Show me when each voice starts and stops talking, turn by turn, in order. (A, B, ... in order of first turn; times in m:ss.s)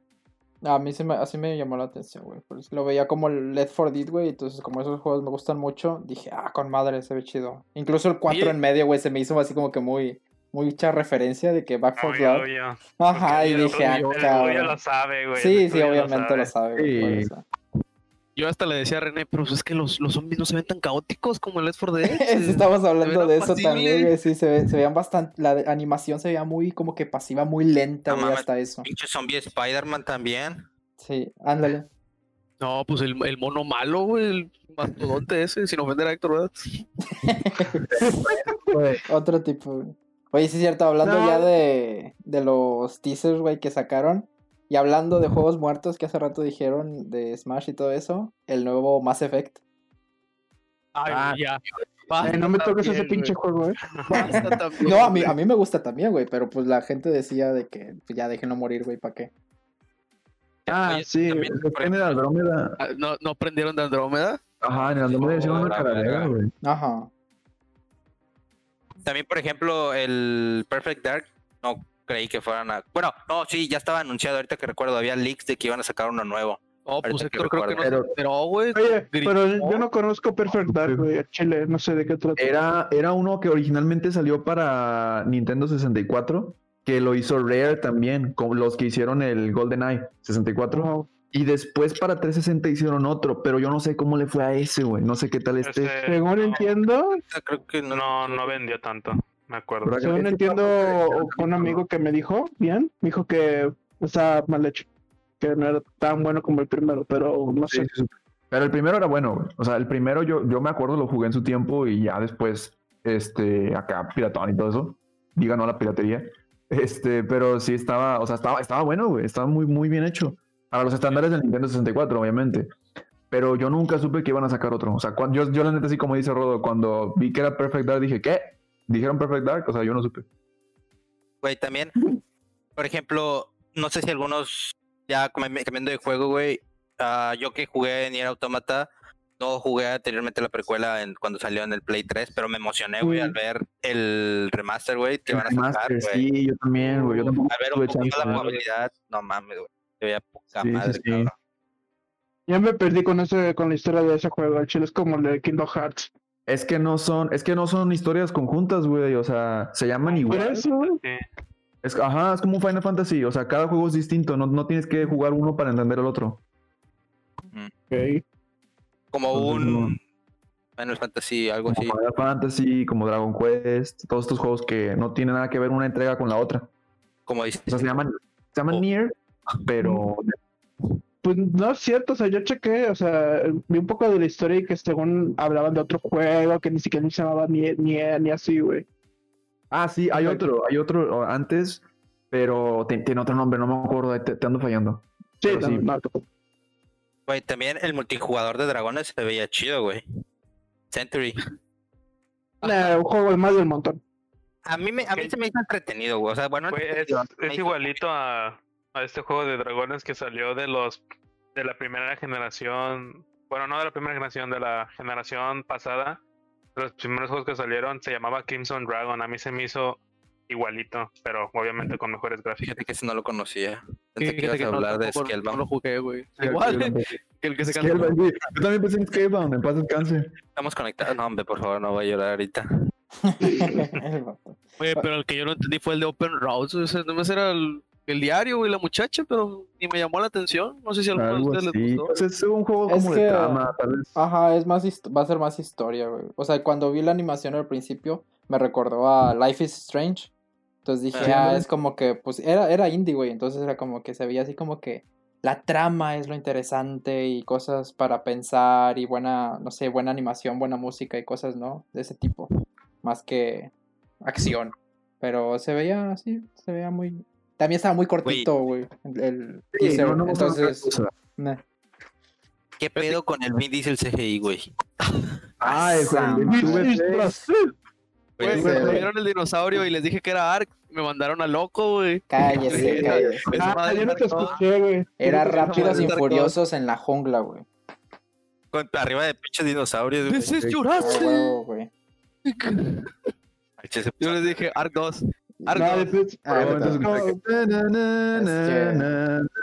0:00.6-0:12.5 A
0:08.3-0:08.6 B
0:12.0-0:16.5 C
0:13.0-0:14.8 A
0:13.4-0:14.7 B
0:15.3-0:17.4 A
0:16.8-0:17.3 D
0:18.4-0:24.2 B
0:22.0-0:28.9 A
0:28.1-0:30.6 E
0:31.0-0:31.9 A
0:32.6-0:36.8 B
0:37.2-0:37.8 A
0:37.9-0:39.0 D
0:38.1-0:38.3 F
0:39.1-0:49.6 A
0:41.0-0:41.5 F
0:51.0-0:53.3 B
0:52.2-0:54.5 F
0:53.8-0:54.1 C
0:54.1-0:55.4 B
0:54.3-0:59.3 A
1:00.6-1:02.2 E
1:00.7-1:01.5 F
1:01.3-1:02.8 D
1:02.8-1:04.4 B
1:04.6-1:06.5 D
1:05.1-1:06.3 E
1:05.2-1:05.7 B
1:06.6-1:07.1 A
1:09.0-1:17.9 E
1:16.8-1:19.9 B
1:17.8-1:18.1 D
1:18.7-1:22.6 F
1:20.7-1:21.1 D
1:22.4-1:35.9 D
1:30.7-1:31.1 F
1:35.6-1:36.7 C
1:36.0-1:37.2 F
1:37.1-1:38.6 E
1:37.9-1:40.0 C
1:39.8-1:41.8 D
1:40.0-1:44.9 F
1:45.4-1:47.9 F
1:47.7-2:02.7 D
2:03.3-2:10.3 D
2:11.4-2:12.0 E
2:12.8-2:18.9 E
2:19.4-2:26.2 E
2:23.0-2:23.3 F
2:25.3-2:28.6 D
2:27.4-2:31.3 E
2:30.6-2:31.3 D
2:32.5-2:36.1 F
2:36.5-2:40.6 D
2:40.1-2:41.2 C
2:40.3-2:41.0 F
2:41.8-2:46.4 D
2:47.9-2:48.2 F
2:49.1-2:50.0 E
2:49.3-2:50.0 D
2:50.8-2:52.0 E
2:51.7-2:56.7 D
2:57.3-2:57.9 E
2:57.7-3:00.4 D
3:01.2-3:08.8 F
3:09.7-3:15.9 D
3:10.1-3:10.4 F
3:15.4-3:16.2 F
3:17.3-3:20.0 E
3:20.9-3:21.4 E
3:22.6-3:24.0 F
3:24.6-3:28.0 E
3:26.7-3:31.0 C
3:31.5-3:36.2 C
3:36.7-3:42.8 C
3:42.6-3:45.6 E
3:44.2-3:48.2 B
3:46.4-3:50.3 D
3:50.6-3:52.6 E
3:53.2-3:55.0 A
3:54.8-4:02.1 B
4:01.1-4:04.2 D
4:02.9-4:10.3 A
4:10.8-4:22.5 A
4:11.2-4:11.6 D
4:23.0-4:23.7 A
4:24.2-4:31.6 A
4:29.7-4:31.1 D
4:32.8-4:34.6 E
4:32.9-4:33.2 B
4:35.6-4:37.4 D
4:35.6-4:36.9 A
4:36.5-4:37.6 F
4:38.4-4:38.8 E
4:38.4-4:44.6 B
4:38.4-4:39.1 A
4:38.5-4:39.1 F
4:42.3-4:43.6 A
4:42.7-4:43.3 D
4:43.6-4:46.1 F
4:45.2-4:47.6 A
4:45.5-4:46.5 B
4:48.7-4:50.5 E
4:50.2-4:51.6 B
4:51.0-4:51.9 A
4:52.4-4:53.1 B
4:53.8-4:54.7 E
4:54.2-4:56.2 B
4:55.6-4:55.9 A
4:55.7-4:57.3 F
4:56.4-4:57.2 A
4:56.5-4:59.5 D
4:58.3-4:59.1 A